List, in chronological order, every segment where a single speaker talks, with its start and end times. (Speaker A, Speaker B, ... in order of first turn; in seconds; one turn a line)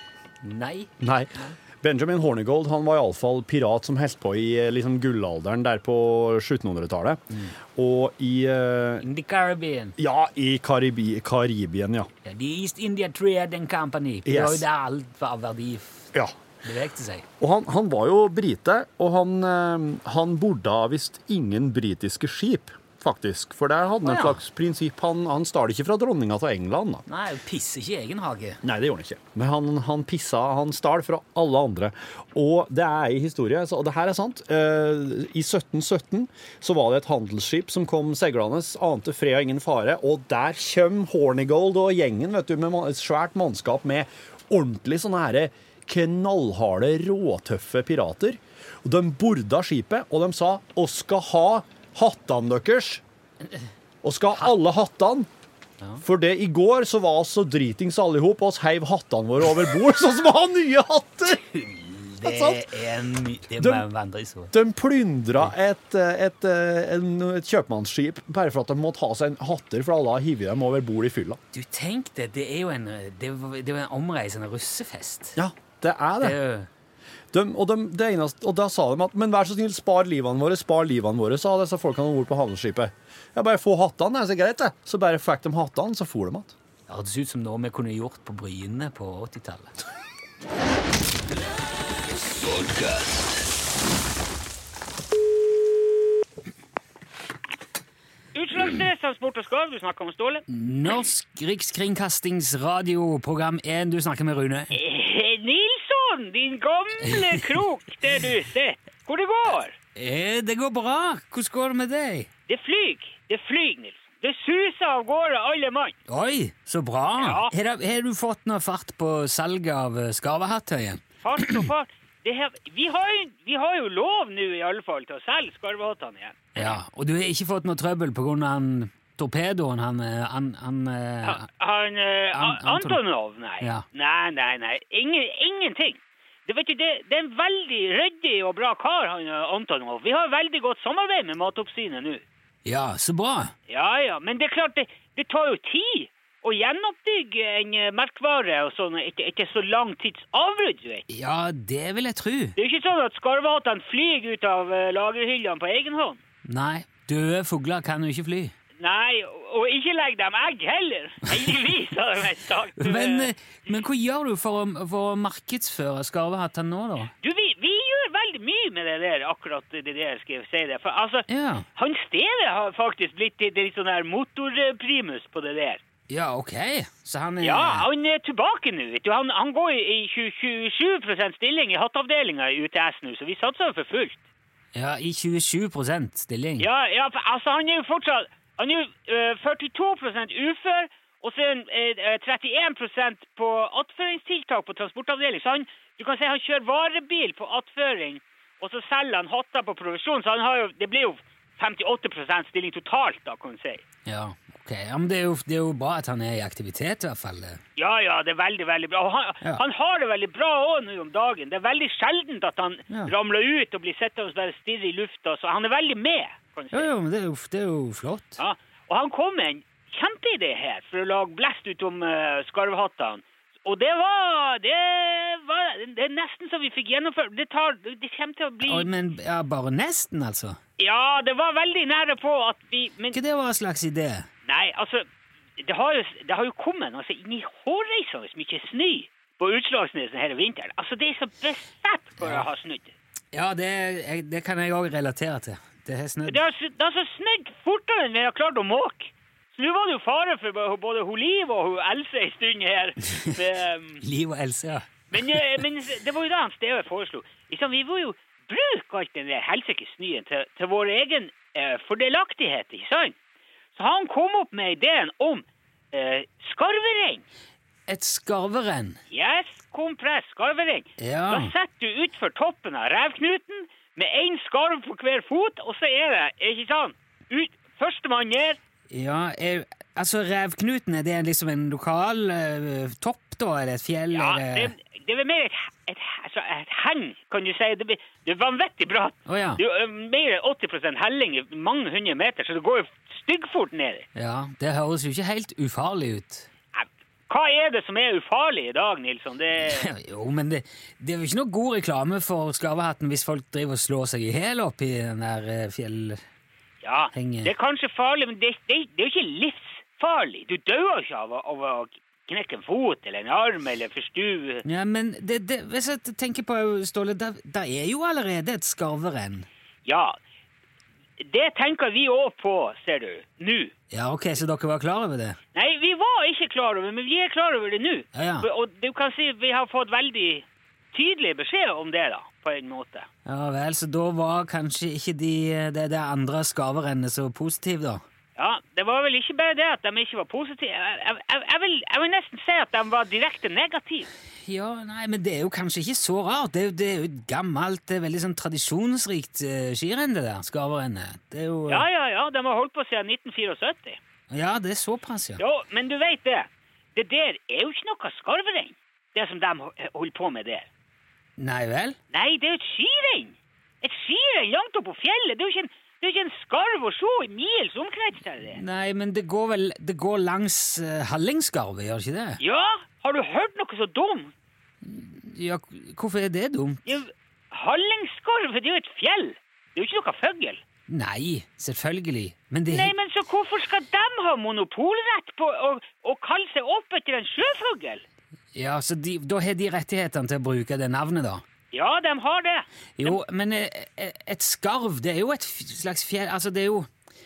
Speaker A: 0.4-1.6
Speaker B: 1.0-9.1
Speaker A: 9.0-9.9
Speaker B: 10.0-12.1
Speaker A: 12.2-16.1
Speaker B: 14.2-14.7
Speaker A: 16.6-17.2
Speaker B: 17.4-27.0
Speaker A: 24.0-24.4
Speaker A: 27.1-28.6
Speaker B: 28.6-53.0
Speaker B: 54.0-55.3
Speaker B: 56.0-61.4
Speaker A: 61.5-64.5
Speaker B: 62.2-62.6
Speaker B: 63.6-63.8
Speaker B: 64.5-71.4
Speaker A: 71.5-75.4
Speaker B: 75.3-76.4
Speaker A: 76.2-76.7
Speaker B: 77.3-86.5
Speaker A: 86.9-89.7
Speaker C: 98.3-100.4
Speaker A: 100.5-104.8
Speaker C: 104.7-109.8
Speaker A: 107.1-107.4
Speaker A: 110.0-112.3
Speaker C: 112.5-116.0
Speaker A: 116.1-121.7
Speaker C: 117.2-117.5
Speaker C: 121.2-126.8
Speaker A: 126.5-131.4
Speaker C: 131.2-142.2
Speaker A: 132.3-133.0
Speaker A: 133.6-133.8
Speaker A: 142.6-143.5
Speaker C: 143.7-151.0
Speaker A: 151.1-152.6
Speaker C: 152.6-156.2
Speaker A: 156.4-158.5
Speaker C: 158.8-163.3
Speaker A: 162.8-167.1
Speaker C: 167.2-175.8
Speaker A: 171.3-171.7
Speaker A: 176.1-177.9
Speaker C: 177.4-184.2
Speaker A: 184.7-186.7
Speaker C: 186.6-203.8
Speaker A: 204.1-207.6
Speaker C: 207.8-216.9
Speaker A: 216.7-218.4
Speaker C: 218.4-228.9
Speaker A: 228.6-230.6
Speaker C: 230.8-233.2
Speaker A: 233.1-234.3
Speaker C: 234.4-235.1
Speaker C: 235.6-242.9
Speaker A: 242.2-242.5
Speaker A: 243.3-246.4
Speaker C: 246.3-254.0
Speaker A: 254.0-255.6
Speaker C: 255.1-263.1
Speaker C: 263.7-267.2
Speaker A: 267.9-269.0
Speaker C: 269.1-278.6
Speaker A: 271.0-271.5
Speaker A: 278.9-284.7
Speaker C: 284.1-294.1
Speaker A: 289.3-289.6
Speaker A: 294.1-296.5
Speaker C: 296.7-299.9
Speaker A: 299.7-306.2
Speaker C: 306.8-314.6
Speaker A: 307.1-307.5
Speaker A: 314.6-319.5
Speaker C: 319.8-320.1
Speaker C: 321.2-323.7
Speaker A: 323.9-325.4
Speaker C: 325.5-333.1
Speaker A: 328.1-328.5
Speaker A: 333.2-338.0
Speaker C: 338.4-344.1
Speaker A: 344.4-351.9
Speaker C: 351.7-354.0
Speaker A: 354.3-355.4
Speaker C: 355.4-360.7
Speaker A: 361.4-362.0
Speaker C: 362.1-368.6
Speaker A: 368.5-372.4
Speaker C: 372.4-374.3
Speaker A: 374.8-376.8
Speaker C: 376.9-380.6
Speaker A: 380.9-382.9
Speaker C: 382.7-388.0
Speaker A: 388.5-391.4
Speaker C: 391.7-393.2
Speaker A: 393.0-396.9